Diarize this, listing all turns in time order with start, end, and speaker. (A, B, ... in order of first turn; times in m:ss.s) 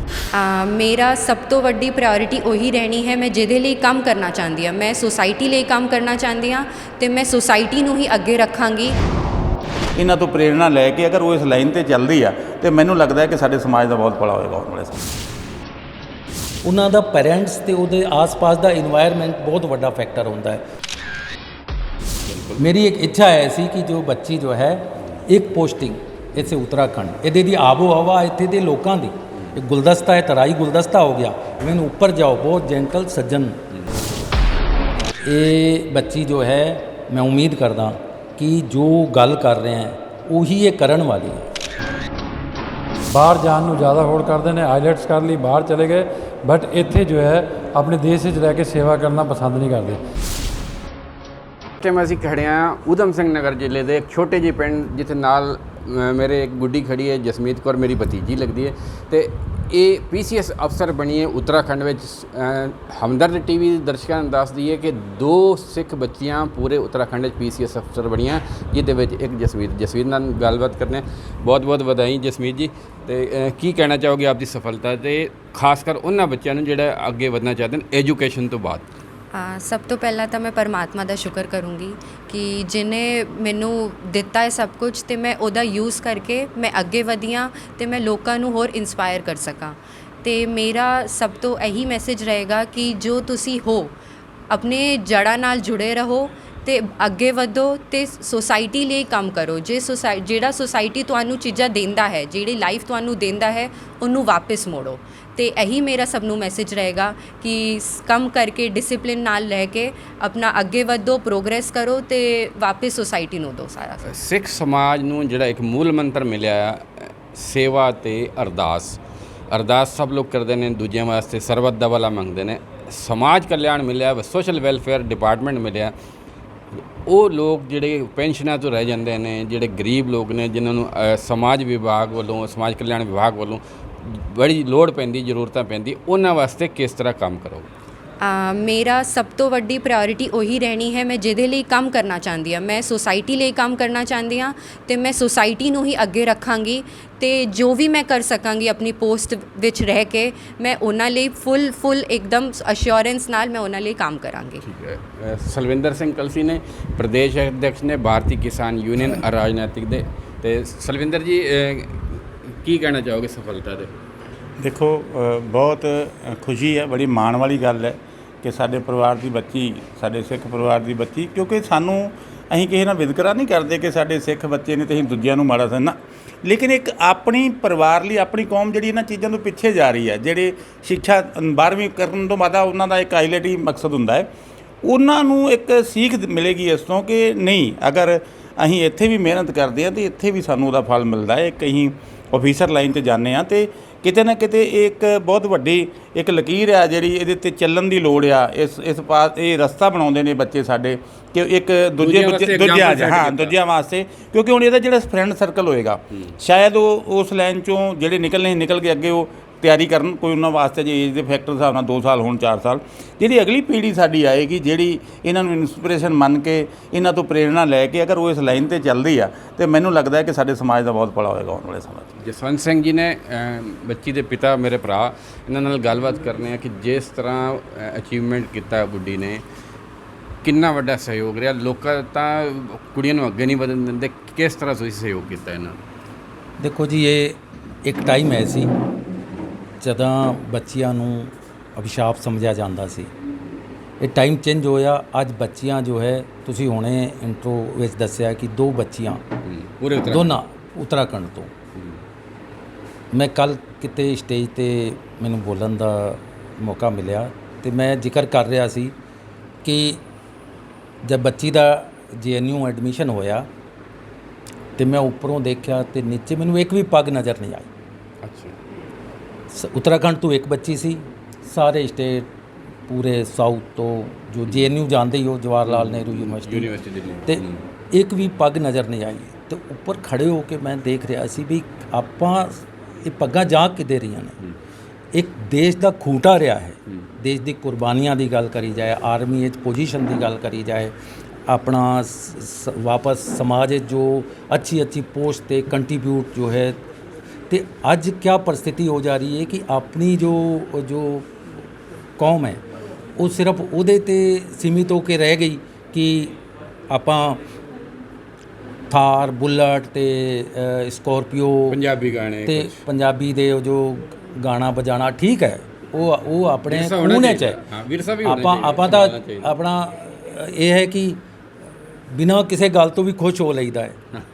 0:00.3-0:09.0 A
0:10.0-0:15.0 B
0:16.6-0:20.6 C
0:22.3-0:22.6 D
0:22.6-0:33.6 C
0:35.2-0:41.5 C
0:43.1-0:50.0 E
0:51.8-1:18.9 D
1:19.3-1:33.9 A
1:34.5-1:54.1 A
1:54.1-1:59.0 D
1:59.5-2:05.9 D
2:07.0-2:17.7 D
2:18.2-2:34.6 A
2:34.6-2:43.9 D
2:44.6-3:04.3 B
3:04.8-3:42.1 B
3:22.0-3:23.6 D
3:42.2-3:49.4 D
3:50.4-3:55.8 D
3:56.6-3:58.7 C
3:59.8-4:03.1 C
4:04.0-4:09.2 C
4:09.4-4:10.4 D
4:10.1-4:11.5 C
4:13.1-4:18.9 C
4:19.6-4:20.0 C
4:21.0-4:23.5 C
4:24.8-4:27.7 C
4:28.2-4:28.6 D
4:29.5-4:32.3 C
4:32.9-4:36.7 C
4:34.5-4:34.7 D
4:35.7-4:37.6 D
4:37.3-4:44.4 C
4:45.1-4:50.9 C
4:51.5-4:56.8 C
4:57.5-5:01.3 C
5:02.2-5:02.6 C
5:03.2-5:06.4 C
5:06.9-5:07.4 C
5:08.9-5:11.8 C
5:11.7-5:12.8 D
5:12.5-5:17.6 C
5:16.7-5:19.6 D
5:18.2-5:21.2 C
5:22.1-5:24.0 C